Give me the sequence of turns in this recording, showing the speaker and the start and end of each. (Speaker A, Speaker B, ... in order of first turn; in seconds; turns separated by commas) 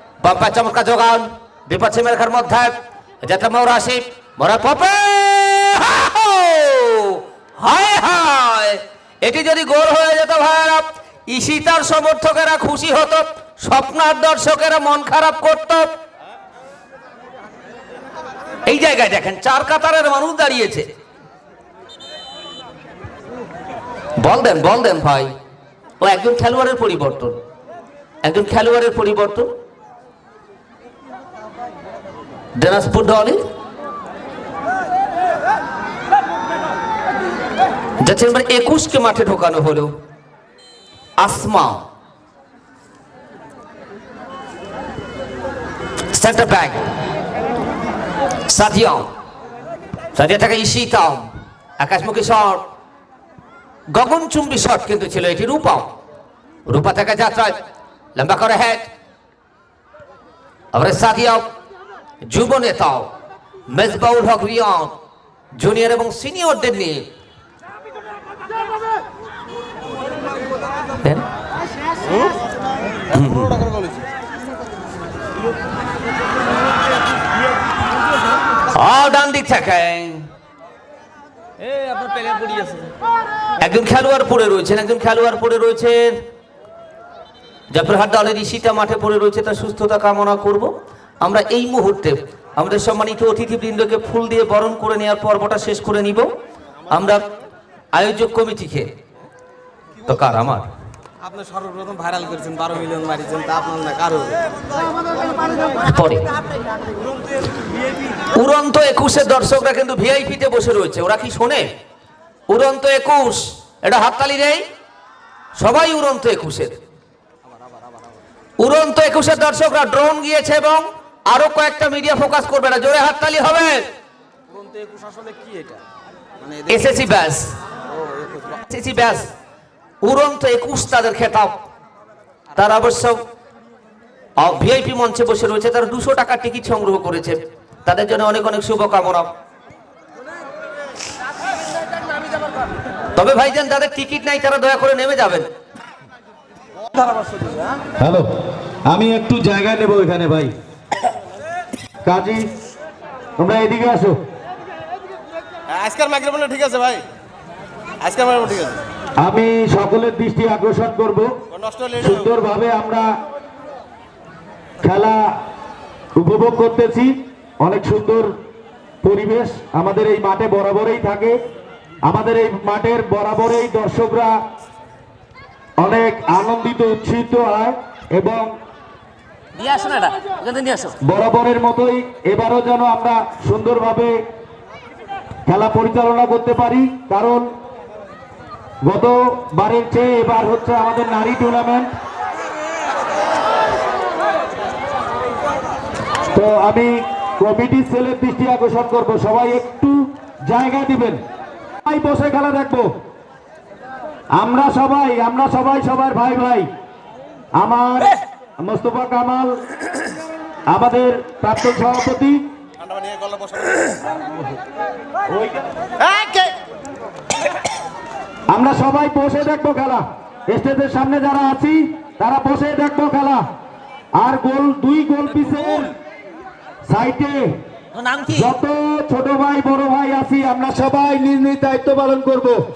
Speaker A: 0.2-15.9, Speaker A: 18.6-20.9, Speaker A: 24.2-25.3, Speaker A: 26.0-27.4, Speaker A: 28.2-29.5, Speaker A: 32.6-33.4, Speaker A: 38.0-39.9, Speaker A: 41.2-41.8, Speaker A: 46.1-46.8, Speaker A: 48.5-49.1, Speaker A: 50.1-51.3, Speaker A: 51.8-52.6, Speaker A: 53.9-55.9, Speaker A: 56.7-57.6, Speaker A: 58.1-58.8, Speaker A: 60.7-61.5, Speaker A: 62.3-63.1, Speaker A: 63.7-64.9, Speaker A: 65.6-67.0, Speaker B: 72.0-72.4, Speaker B: 73.1-74.1, Speaker A: 73.1-73.6, Speaker A: 78.7-80.2, Speaker C: 81.6-82.9, Speaker A: 83.6-86.2, Speaker A: 87.7-90.7, Speaker A: 91.2-96.3, Speaker A: 96.9-97.2, Speaker A: 97.9-98.9, Speaker A: 100.1-100.7, Speaker C: 101.2-104.5, Speaker A: 105.8-106.3, Speaker A: 108.3-111.7, Speaker A: 112.5-114.6, Speaker A: 115.6-116.7, Speaker C: 117.4-118.2, Speaker A: 118.6-123.8, Speaker C: 124.5-125.8, Speaker C: 126.4-127.1, Speaker A: 126.7-127.4, Speaker C: 127.8-128.6, Speaker A: 128.7-129.2, Speaker A: 130.0-131.6, Speaker A: 132.6-133.2, Speaker A: 134.4-139.3, Speaker A: 143.1-145.5, Speaker C: 146.9-147.7, Speaker D: 148.0-148.3, Speaker D: 148.9-150.5, Speaker D: 152.0-152.5, Speaker D: 153.4-154.2, Speaker B: 155.7-157.0, Speaker B: 158.0-158.8, Speaker D: 159.2-161.3, Speaker B: 161.5-162.3, Speaker D: 162.0-163.1, Speaker D: 164.8-165.3, Speaker D: 166.1-168.3, Speaker D: 169.0-171.4, Speaker D: 172.0-174.4, Speaker D: 175.8-178.5, Speaker C: 179.6-180.9, Speaker D: 181.0-184.2, Speaker D: 185.4-187.5, Speaker D: 188.8-191.9, Speaker D: 196.3-201.2, Speaker D: 201.8-202.9, Speaker D: 204.3-206.7, Speaker D: 207.5-209.6, Speaker D: 210.7-212.4, Speaker B: 212.8-214.1, Speaker B: 216.0-216.5, Speaker D: 218.5-223.4, Speaker D: 224.2-225.9, Speaker D: 226.9-227.6, Speaker A: 227.9-228.4, Speaker D: 228.3-232.6